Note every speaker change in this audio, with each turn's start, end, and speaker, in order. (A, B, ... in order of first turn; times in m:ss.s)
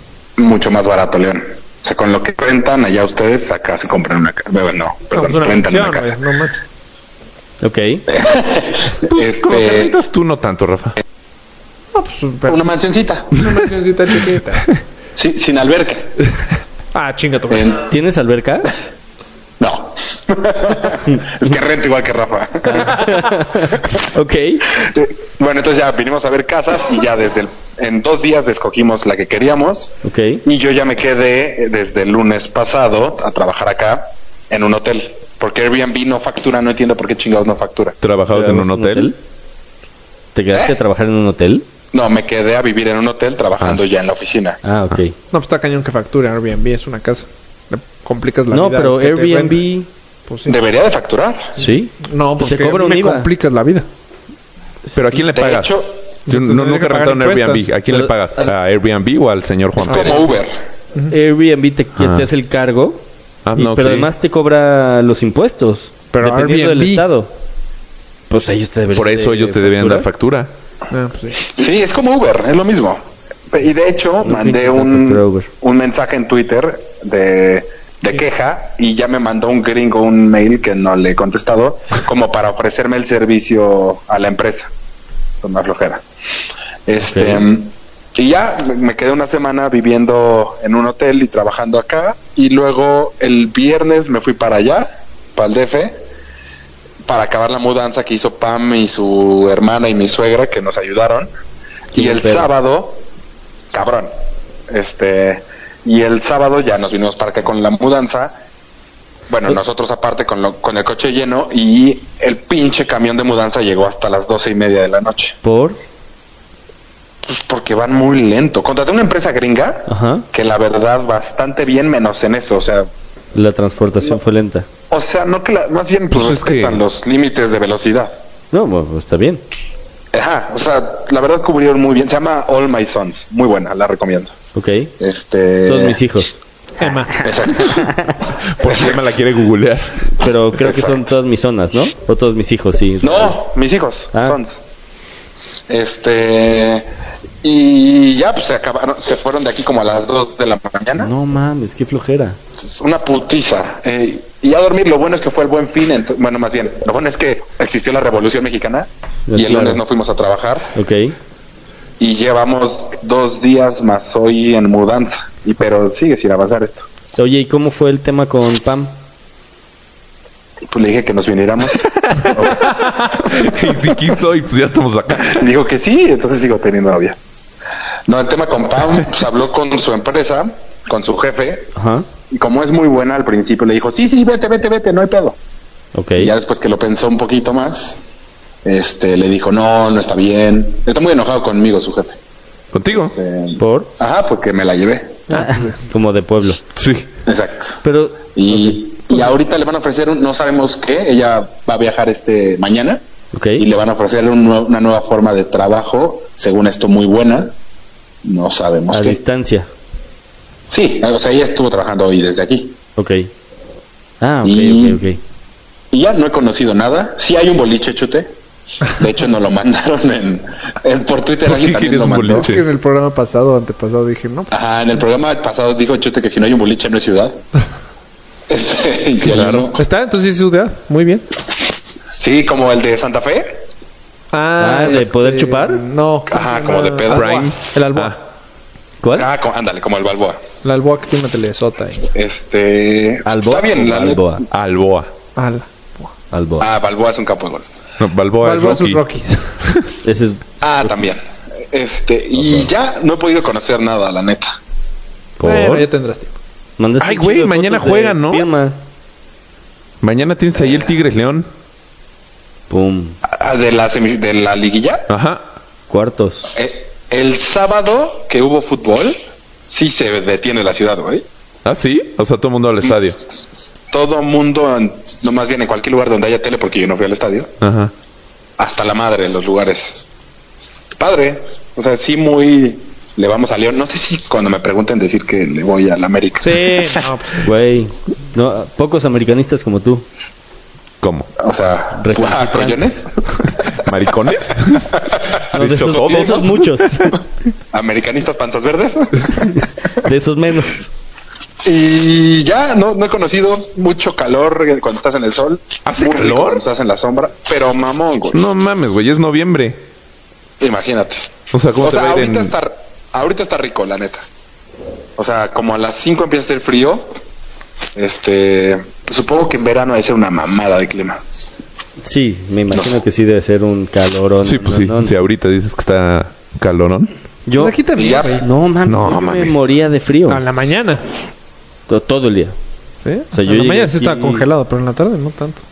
0:00.4-0:06.2 A
0:05.1-0:06.6 B
0:07.6-0:08.0 C
0:08.1-0:10.0 A
0:09.0-0:11.0 D
0:11.9-0:12.6 B
0:12.5-0:13.3 A
0:13.3-0:14.7 B
0:15.2-0:16.2 A
0:16.9-0:17.7 B
0:17.5-0:17.9 A
0:17.8-0:18.7 C
0:19.6-0:23.1 A
0:22.6-0:24.7 C
0:24.7-0:38.0 A
0:30.0-0:30.4 C
0:38.0-0:39.1 D
0:38.3-0:39.2 C
0:40.3-0:41.6 C
0:40.5-0:40.8 A
0:41.9-0:44.6 A
0:44.6-0:45.2 C
0:45.3-0:49.6 B
0:48.5-0:49.9 C
0:50.3-0:50.6 B
0:50.4-0:51.6 A
0:51.6-0:53.3 C
0:51.6-0:53.8 B
0:54.9-1:00.3 D
0:55.3-0:56.0 A
0:56.3-0:57.6 B
0:57.9-0:58.1 C
0:59.8-1:00.6 A
0:59.8-1:00.2 B
1:01.1-1:03.0 C
1:02.0-1:02.3 D
1:03.4-1:04.1 D
1:03.6-1:07.3 C
1:06.1-1:07.1 B
1:08.3-1:10.1 C
1:08.9-1:10.5 D
1:10.9-1:11.4 B
1:11.5-1:24.7 A
1:14.2-1:15.5 C
1:25.4-1:26.0 A
1:26.8-1:36.0 A
1:27.0-1:27.4 C
1:37.0-1:41.3 A
1:41.9-1:42.5 C
1:41.9-1:43.0 A
1:43.7-1:44.1 A
1:44.7-1:48.3 A
1:49.3-1:55.4 A
1:55.4-1:55.8 C
1:57.2-2:02.9 A
1:59.9-2:00.2 C
2:03.3-2:04.7 C
2:04.9-2:08.2 A
2:06.1-2:06.8 D
2:08.5-2:09.4 C
2:10.1-2:14.4 A
2:14.5-2:14.9 C
2:15.0-2:16.0 A
2:15.6-2:16.4 C
2:16.8-2:17.1 B
2:17.2-2:17.9 A
2:17.6-2:18.2 C
2:18.5-2:20.1 D
2:18.6-2:19.0 A
2:20.1-2:23.4 C
2:20.6-2:21.0 A
2:23.0-2:24.6 A
2:25.7-2:26.9 A
2:27.4-2:31.1 A
2:31.0-2:32.4 C
2:32.6-2:40.7 A
2:39.3-2:39.8 C
2:40.7-2:41.1 C
2:42.0-2:46.9 A
2:47.2-2:48.9 C
2:50.7-2:53.9 A
2:53.2-2:55.4 D
2:55.2-2:57.2 A
2:58.1-3:01.7 A
3:01.7-3:02.0 C
3:02.3-3:05.4 A
3:05.9-3:06.3 C
3:06.2-3:08.0 A
3:08.6-3:12.2 A
3:12.7-3:13.1 D
3:13.0-3:15.2 A
3:13.6-3:13.9 C
3:15.3-3:16.6 C
3:15.3-3:15.7 B
3:16.8-3:17.1 D
3:17.2-3:17.8 A
3:17.8-3:19.2 C
3:18.3-3:23.0 A
3:23.3-3:23.6 C
3:23.6-3:27.5 A
3:28.2-3:29.2 A
3:28.9-3:29.7 C
3:30.7-3:32.8 A
3:33.0-3:33.3 C
3:34.2-3:35.2 C
3:34.4-3:35.0 A
3:35.9-3:38.3 A
3:38.8-3:42.5 A
3:41.4-3:42.6 D
3:42.3-3:44.5 B
3:44.5-3:47.4 A
3:48.5-3:49.8 A
3:49.2-3:49.7 D
3:49.7-3:51.2 B
3:52.1-3:53.6 A
3:54.3-3:58.2 B
3:54.6-3:55.8 C
3:56.3-3:57.3 A
3:57.1-3:58.2 D
3:59.0-3:59.3 C
3:59.1-4:00.4 A
4:00.6-4:02.1 B
4:02.1-4:04.4 A
4:03.2-4:04.4 C
4:04.5-4:05.1 D
4:05.4-4:06.1 B
4:06.3-4:06.7 C
4:06.6-4:07.7 A
4:08.0-4:09.0 D
4:08.4-4:09.5 B
4:10.0-4:10.4 C
4:10.6-4:14.6 A
4:12.4-4:12.6 C
4:15.4-4:15.9 C
4:15.4-4:16.3 B
4:16.8-4:18.8 C
4:17.0-4:18.4 D
4:20.0-4:21.5 D
4:20.6-4:20.9 A
4:22.7-4:23.2 C
4:23.2-4:25.1 A
4:25.1-4:25.4 D
4:25.9-4:26.5 C
4:26.5-4:31.2 A
4:31.6-4:33.2 D
4:33.9-4:37.5 A
4:37.6-4:37.9 D
4:38.6-4:40.0 A
4:41.0-4:46.9 A
4:46.4-4:47.5 B
4:47.4-4:50.0 C
4:51.0-4:51.3 D
4:51.4-4:53.9 A
4:52.0-4:53.0 C
4:53.7-4:56.8 D
4:54.8-4:55.4 A
4:55.5-4:57.2 C
4:56.0-4:56.4 A
4:57.7-4:59.7 A
4:59.9-5:00.9 C
5:01.6-5:08.4 A
5:05.8-5:06.6 D
5:08.3-5:09.8 D
5:10.6-5:14.2 A
5:11.5-5:12.5 D
5:15.2-5:17.1 A
5:18.0-5:21.2 A
5:22.0-5:25.1 C
5:22.7-5:23.0 A
5:24.4-5:27.1 D
5:27.5-5:30.4 C
5:27.6-5:28.4 B
5:27.9-5:28.4 A
5:28.8-5:29.6 D
5:30.3-5:31.0 B
5:31.9-5:32.5 C
5:33.0-5:35.6 B
5:33.3-5:34.4 C